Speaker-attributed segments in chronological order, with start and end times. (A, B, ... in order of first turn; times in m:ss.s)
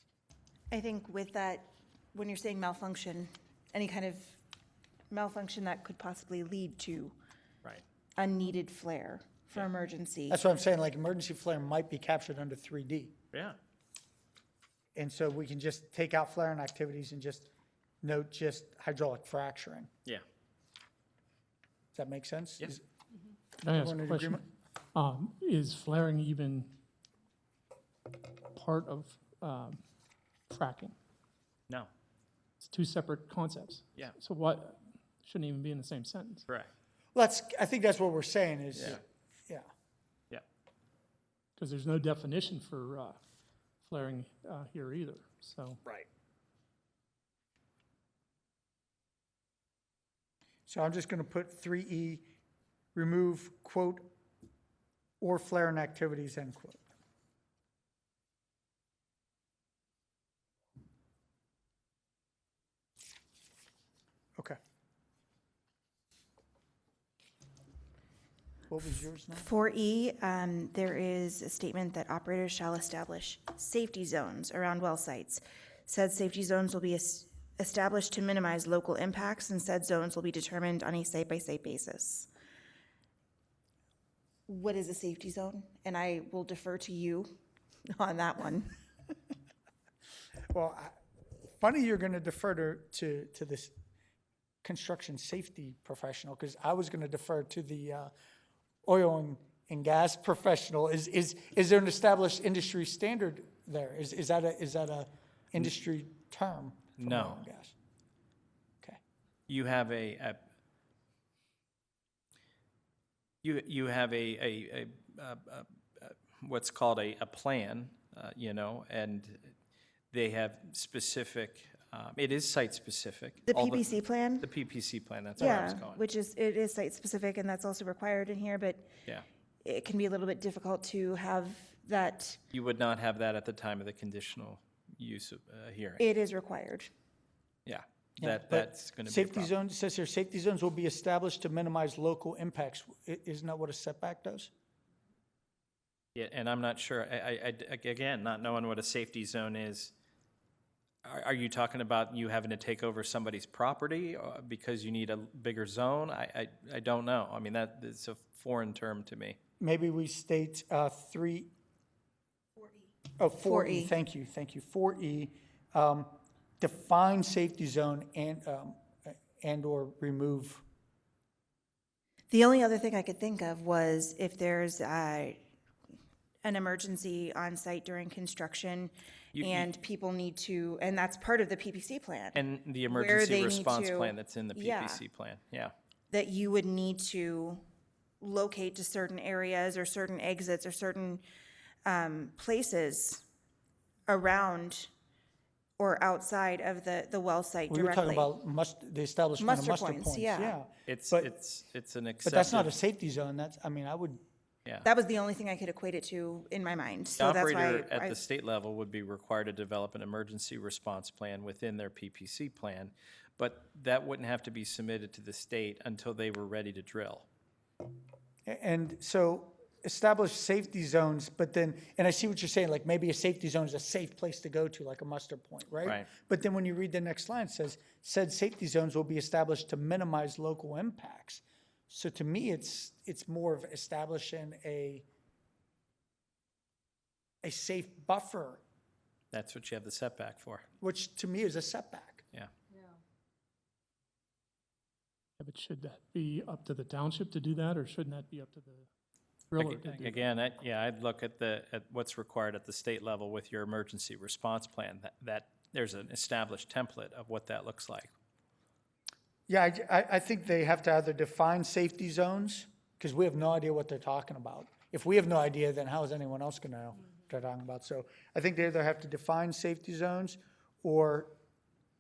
0:00.7-0:04.4 A
0:05.1-0:07.2 A
0:08.2-0:10.4 A
0:10.3-0:13.1 B
0:13.3-0:13.6 C
0:15.0-0:17.5 B
0:18.0-0:19.9 B
0:21.9-0:22.8 B
0:23.6-0:26.8 D
0:23.7-0:24.4 B
0:28.5-0:29.8 D
0:30.5-0:31.0 D
0:32.6-0:36.5 D
0:37.1-0:39.7 B
0:38.7-0:39.0 C
0:41.6-0:43.2 D
0:43.8-0:45.8 D
0:50.7-0:52.2 B
0:52.9-0:54.1 B
0:55.2-0:56.8 B
1:08.7-1:09.5 B
1:09.4-1:22.3 A
1:24.5-1:27.3 A
1:27.9-1:28.7 A
1:30.5-1:30.9 B
1:31.5-1:33.7 B
1:34.6-1:38.1 B
1:38.8-1:47.7 B
1:47.0-1:47.4 C
1:49.5-1:50.4 C
1:53.4-1:59.5 C
2:00.1-2:03.8 C
2:03.4-2:04.5 A
2:04.4-2:06.0 C
2:05.4-2:08.9 A
2:09.6-2:12.4 A
2:12.5-2:16.0 C
2:16.0-2:16.9 A
2:17.6-2:19.5 C
2:18.2-2:24.5 B
2:26.1-2:29.9 C
2:31.0-2:39.4 C
2:39.6-2:41.5 B
2:43.2-2:50.6 B
2:43.4-2:43.9 A
2:52.3-2:55.4 A
2:56.4-3:05.0 A
2:59.3-2:59.7 C
3:02.3-3:05.7 C
3:06.1-3:07.6 A
3:08.2-3:11.2 A
3:11.8-3:13.2 A
3:14.1-3:14.9 A
3:15.8-3:18.3 A
3:17.7-3:21.3 B
3:19.4-3:20.6 A
3:20.9-3:22.7 C
3:22.2-3:24.2 B
3:24.8-3:28.2 A
3:27.2-3:37.3 C
3:38.4-3:55.0 B
3:57.4-3:58.6 B
3:59.3-4:00.6 C
4:00.8-4:02.2 B
4:05.4-4:08.9 D
4:09.5-4:10.2 D
4:09.6-4:18.1 C
4:19.5-4:31.4 B